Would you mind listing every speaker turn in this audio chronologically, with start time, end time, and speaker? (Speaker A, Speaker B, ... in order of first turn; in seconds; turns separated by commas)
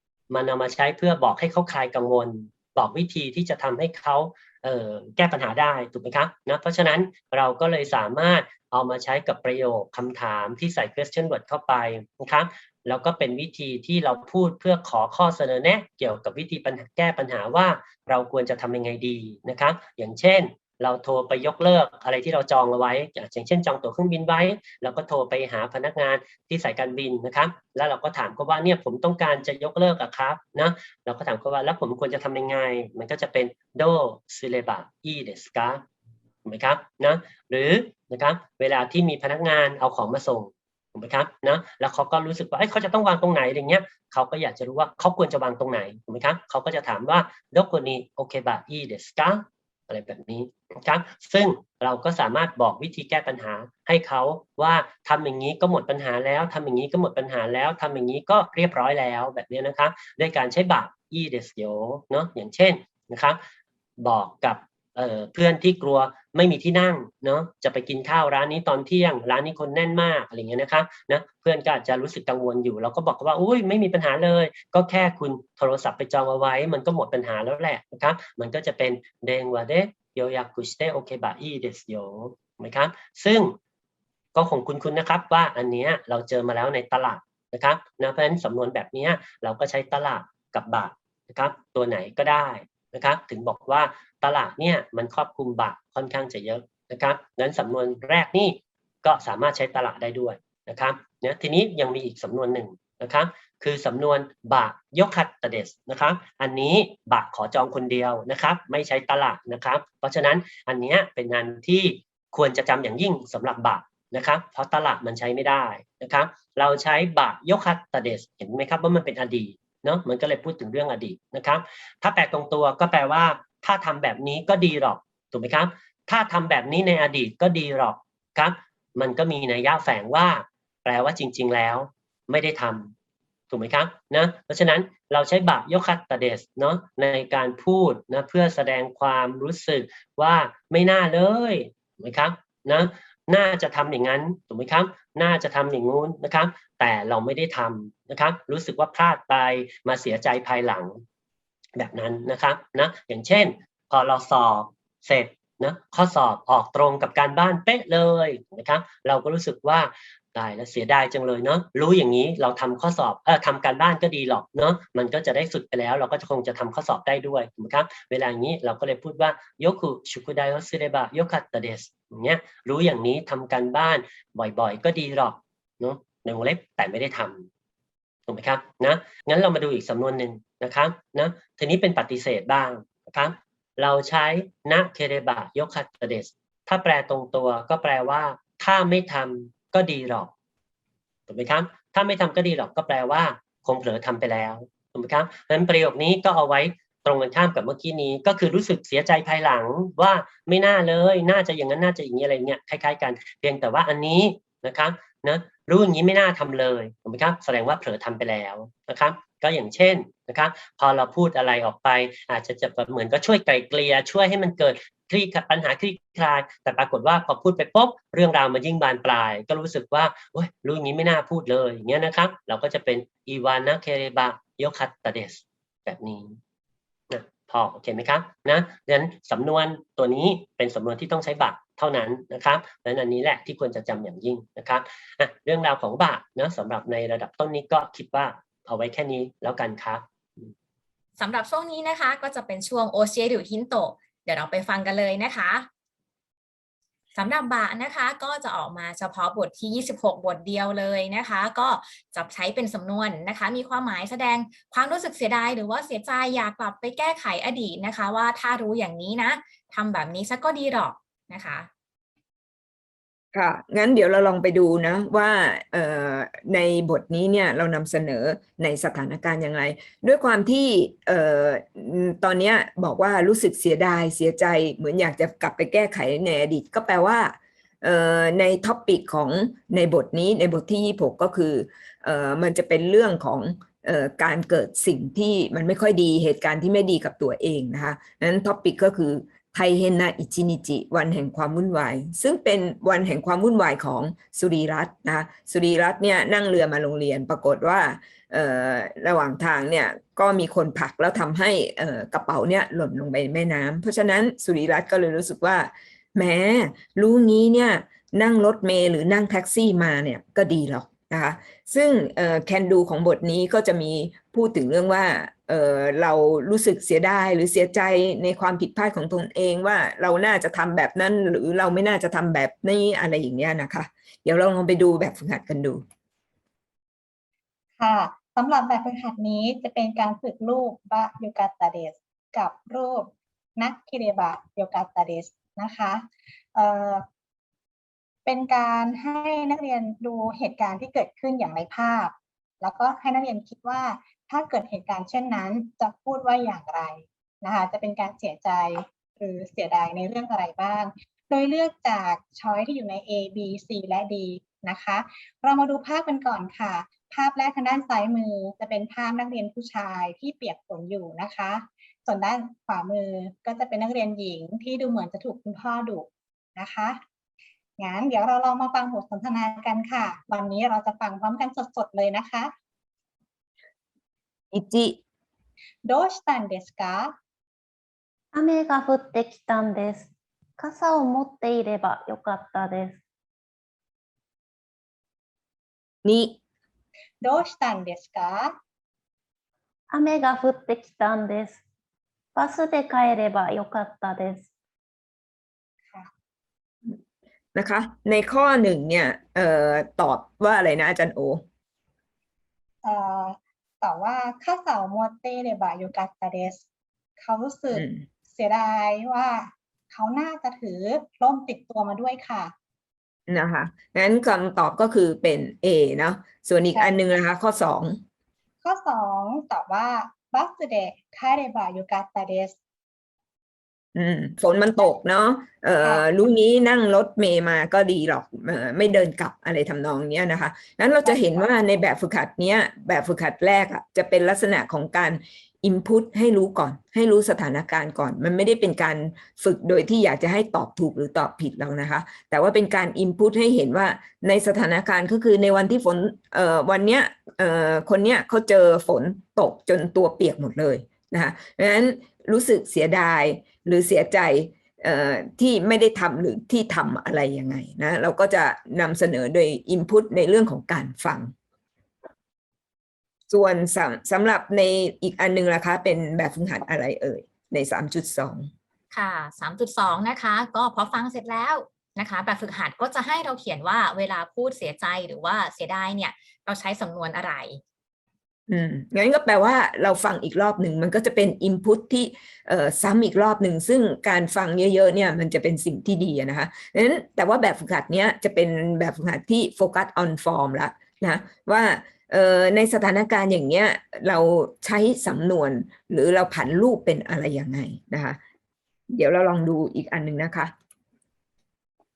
Speaker A: 0.3-35.8, Speaker A: 36.4-63.4, Speaker A: 64.0-83.5, Speaker A: 84.3-132.9, Speaker A: 133.5-151.0, Speaker A: 151.8-177.5, Speaker A: 178.3-190.3, Speaker A: 191.3-226.4, Speaker A: 227.1-240.5, Speaker B: 241.2-245.7, Speaker B: 247.1-261.7, Speaker C: 263.3-325.8, Speaker D: 327.8-337.0, Speaker D: 338.2-367.0, Speaker D: 367.8-372.5, Speaker C: 374.5-375.0, Speaker D: 375.8-377.1, Speaker E: 378.3-383.0, Speaker C: 386.0-386.4, Speaker D: 387.2-388.6, Speaker E: 389.9-391.6, Speaker E: 392.3-394.5, Speaker C: 397.5-401.4, Speaker D: 402.8-406.6, Speaker D: 407.2-412.5, Speaker C: 407.7-408.0, Speaker C: 413.3-418.0, Speaker D: 418.6-422.6, Speaker C: 423.9-461.3, Speaker D: 425.8-426.2, Speaker D: 431.0-431.4, Speaker C: 463.3-468.5, Speaker B: 468.9-477.6, Speaker C: 478.5-498.2, Speaker C: 498.9-500.5